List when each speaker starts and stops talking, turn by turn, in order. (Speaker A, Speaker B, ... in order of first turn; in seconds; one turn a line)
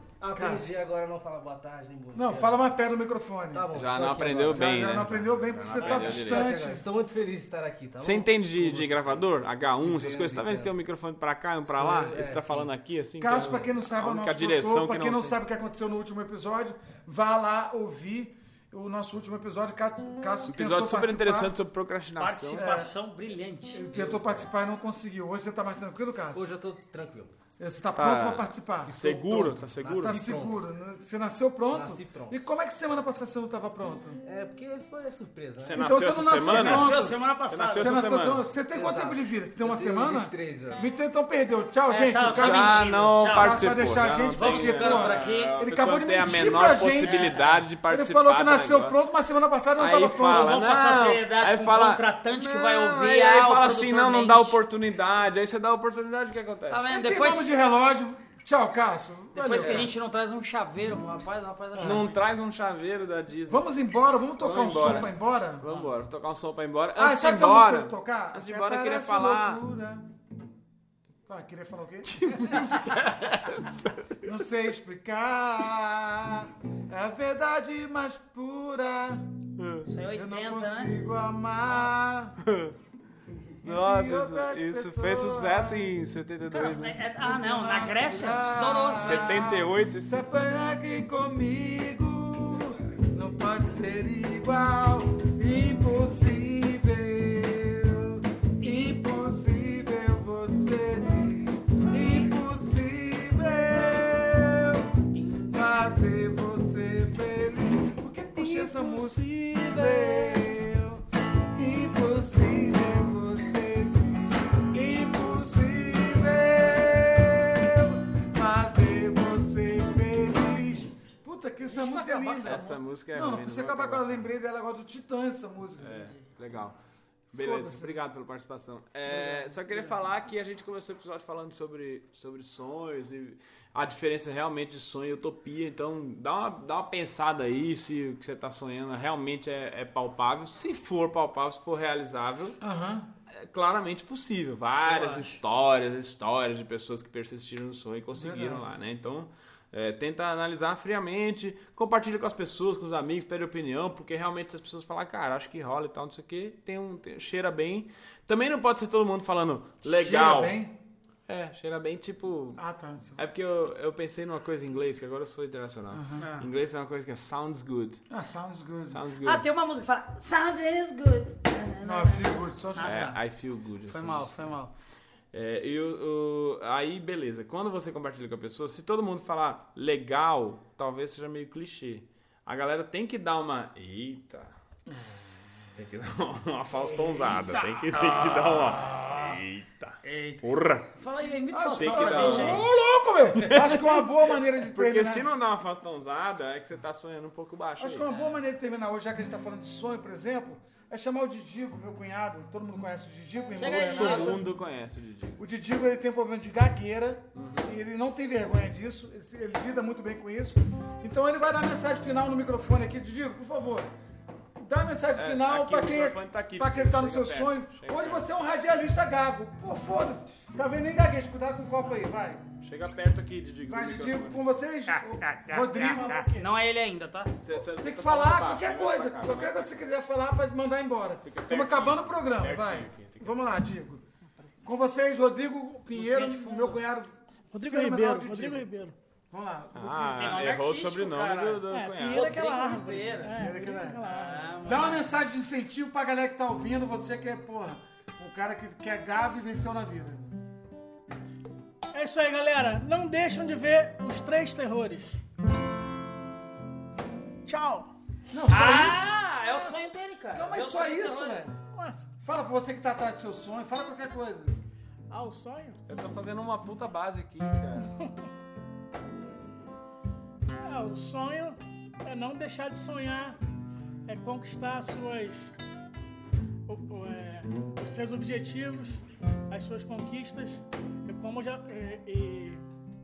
Speaker A: 0.2-2.6
Speaker B: 0.3-0.6
Speaker B: 2.1-3.7
Speaker A: 3.5-5.1
Speaker C: 3.7-6.5
Speaker B: 4.5-6.9
Speaker A: 5.8-9.2
Speaker C: 8.0-15.3
Speaker A: 9.8-10.7
Speaker A: 11.7-12.7
Speaker B: 13.2-21.5
Speaker C: 20.4-22.6
Speaker D: 22.2-23.9
Speaker B: 22.5-22.9
Speaker B: 23.7-26.5
Speaker A: 23.9-24.4
Speaker A: 26.3-27.4
Speaker B: 27.6-34.2
Speaker C: 27.9-30.2
Speaker A: 28.9-30.6
Speaker A: 31.7-32.4
Speaker A: 34.2-35.8
Speaker C: 35.6-38.4
Speaker B: 35.7-37.2
Speaker D: 36.4-38.0
Speaker B: 37.8-50.6
Speaker A: 38.7-40.8
Speaker D: 41.9-45.6
Speaker C: 42.1-48.9
Speaker D: 47.0-47.6
Speaker C: 49.8-56.9
Speaker D: 50.2-54.6
Speaker D: 56.7-57.6
Speaker B: 56.9-59.9
Speaker D: 59.3-62.2
Speaker C: 59.6-59.9
Speaker B: 61.8-62.0
Speaker C: 61.8-63.7
Speaker B: 63.5-65.7
Speaker C: 64.4-69.6
Speaker D: 65.6-65.9
Speaker B: 67.0-70.1
Speaker B: 71.3-73.0
Speaker C: 72.0-74.3
Speaker B: 74.2-79.3
Speaker C: 79.6-79.9
Speaker D: 79.8-80.9
Speaker B: 80.1-82.4
Speaker D: 81.7-81.9
Speaker C: 82.4-82.7
Speaker B: 83.6-85.9
Speaker C: 83.6-87.1
Speaker D: 86.5-89.5
Speaker B: 87.3-104.9
Speaker C: 88.9-90.2
Speaker D: 105.1-105.6
Speaker B: 105.5-126.1
Speaker C: 108.3-110.6
Speaker C: 114.8-115.4
Speaker D: 121.6-122.8
Speaker C: 122.4-124.2
Speaker C: 125.8-126.8
Speaker D: 125.9-126.2
Speaker C: 127.3-142.6
Speaker B: 127.3-128.0
Speaker D: 129.1-130.0
Speaker B: 142.6-143.1
Speaker C: 143.3-160.6
Speaker D: 144.9-145.4
Speaker B: 148.2-148.7
Speaker B: 159.8-160.7
Speaker C: 161.3-162.6
Speaker B: 162.6-163.2
Speaker C: 163.2-168.0
Speaker B: 165.9-166.2
Speaker D: 166.2-166.5
Speaker B: 168.1-169.0
Speaker C: 168.9-169.4
Speaker D: 169.2-173.2
Speaker B: 171.8-173.1
Speaker C: 172.8-174.5
Speaker D: 173.9-174.7
Speaker C: 175.3-184.5
Speaker C: 185.7-190.9
Speaker D: 187.1-189.4
Speaker D: 190.0-192.7
Speaker B: 191.5-195.3
Speaker C: 191.7-192.7
Speaker C: 193.4-198.1
Speaker B: 197.8-204.5
Speaker D: 198.1-198.4
Speaker D: 203.6-204.4
Speaker C: 203.6-205.4
Speaker B: 205.4-213.9
Speaker C: 207.3-207.7
Speaker B: 214.6-222.4
Speaker C: 215.2-218.3
Speaker C: 222.6-224.4
Speaker B: 223.7-226.2
Speaker D: 224.9-227.3
Speaker E: 225.8-226.5
Speaker C: 227.4-229.8
Speaker B: 227.7-234.0
Speaker C: 231.2-233.5
Speaker B: 234.6-238.7
Speaker D: 235.9-236.8
Speaker E: 237.5-238.9
Speaker B: 239.3-240.5
Speaker C: 239.7-242.4
Speaker D: 240.2-243.4
Speaker E: 241.7-244.9
Speaker B: 243.3-244.1
Speaker D: 244.0-245.2
Speaker B: 244.6-250.3
Speaker E: 251.9-255.2
Speaker E: 257.4-257.9
Speaker B: 258.3-259.1
Speaker D: 258.5-261.5
Speaker B: 260.3-261.6
Speaker E: 261.7-262.1
Speaker B: 262.2-264.6
Speaker E: 265.1-265.8
Speaker C: 265.9-267.9
Speaker E: 267.8-268.2
Speaker E: 270.6-273.4
Speaker E: 274.1-275.5
Speaker E: 276.7-282.6